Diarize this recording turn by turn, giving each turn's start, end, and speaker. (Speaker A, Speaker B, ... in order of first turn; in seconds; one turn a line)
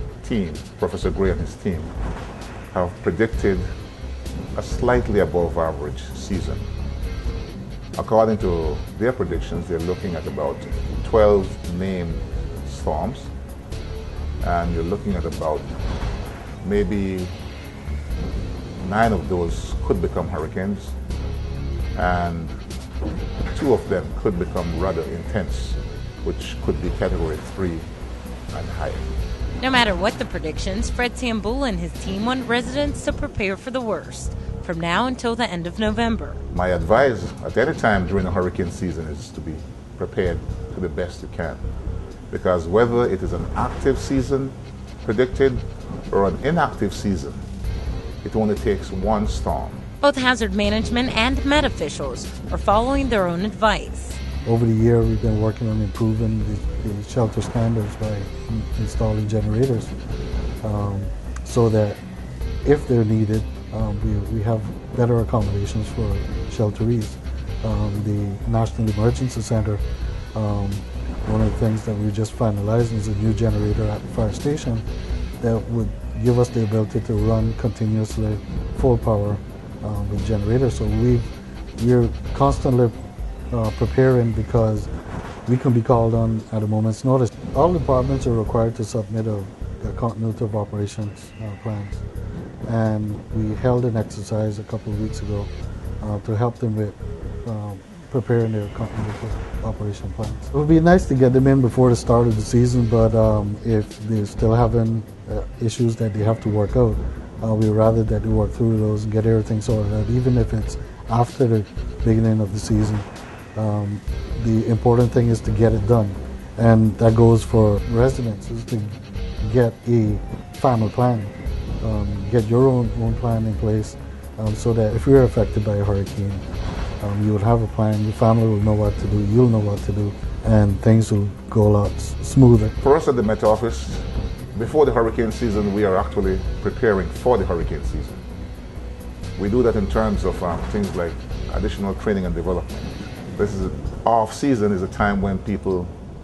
Speaker A: 0.2-1.9
Speaker A: 2.7-3.7
Speaker A: 4.5-6.7
Speaker A: 8.0-13.3
Speaker A: 14.4-15.7
Speaker A: 16.6-17.3
Speaker A: 18.8-21.0
Speaker A: 21.9-22.6
Speaker A: 23.5-27.9
Speaker A: 28.5-29.1
Speaker B: 29.6-36.4
Speaker A: 36.5-41.6
Speaker A: 42.3-47.5
Speaker A: 48.2-49.9
Speaker B: 50.0-54.2
Speaker C: 54.5-59.9
Speaker C: 60.6-62.0
Speaker C: 62.6-69.8
Speaker C: 70.3-74.8
Speaker C: 75.4-83.0
Speaker C: 83.5-84.9
Speaker C: 85.5-92.0
Speaker C: 92.7-126.5
Speaker C: 127.0-132.8
Speaker A: 132.8-138.2
Speaker A: 139.4-145.9